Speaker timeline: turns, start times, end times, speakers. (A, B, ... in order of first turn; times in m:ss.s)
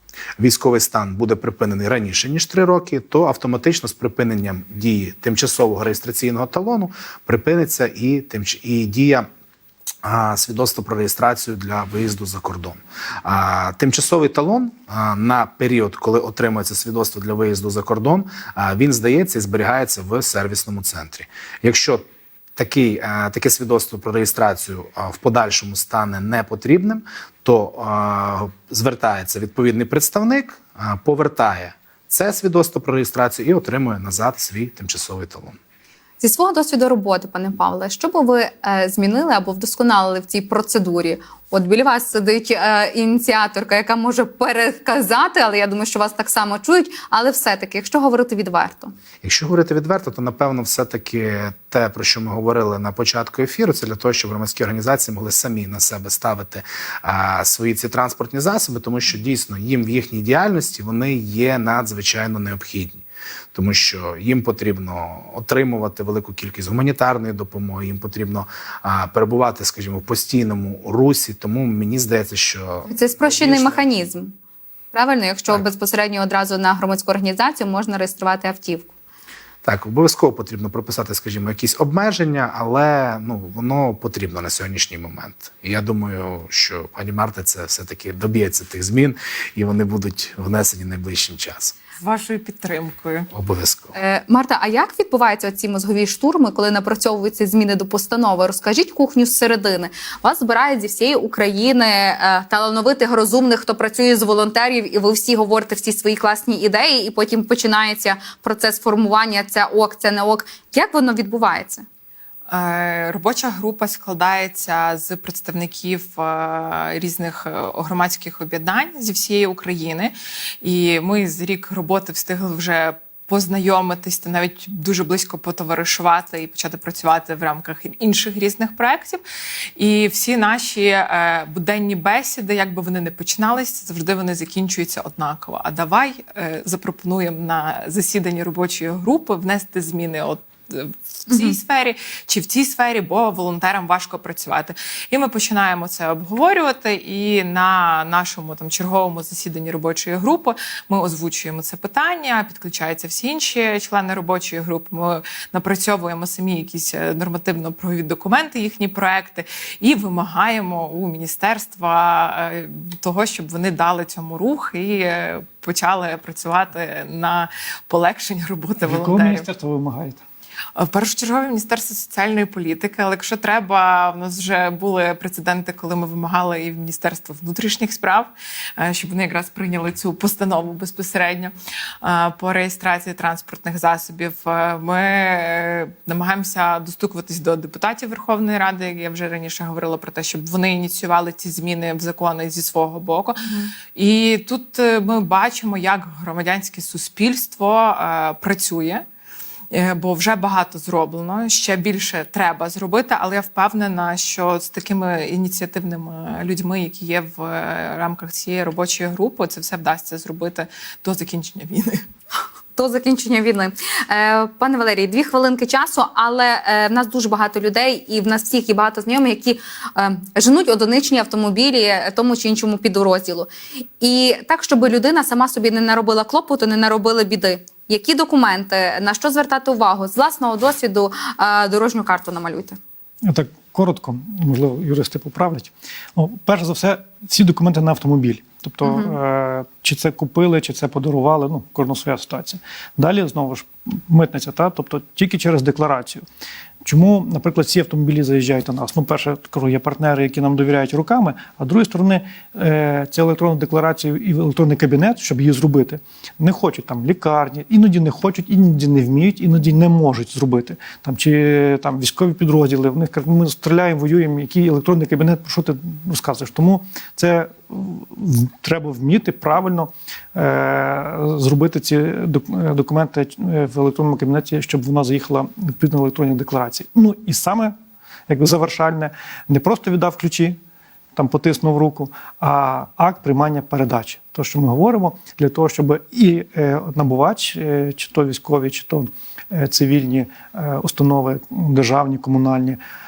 0:00.4-0:09.3 A
0:10.0-0:22.0 A
0:22.6-0:35.6 A
0:36.2-0:48.9 B
0:49.2-1:03.0 A
1:03.5-1:13.9 A
1:12.9-1:14.3 B
1:14.9-1:18.9 B
1:19.6-1:31.7 A
1:32.0-1:33.3 C
1:33.3-1:33.9 A
1:33.9-1:51.8 B
1:52.5-2:09.2 C
2:09.8-2:49.4 C
2:21.3-2:21.5 B
2:48.8-2:50.2 D
2:50.7-3:19.0 C
3:13.4-3:13.7 B
3:19.7-3:32.0 C
3:32.8-3:52.8 B
3:53.2-4:06.2 D
3:58.8-3:59.2 B
4:06.8-4:37.8 D
4:38.3-4:40.6 D
4:41.1-4:52.8 D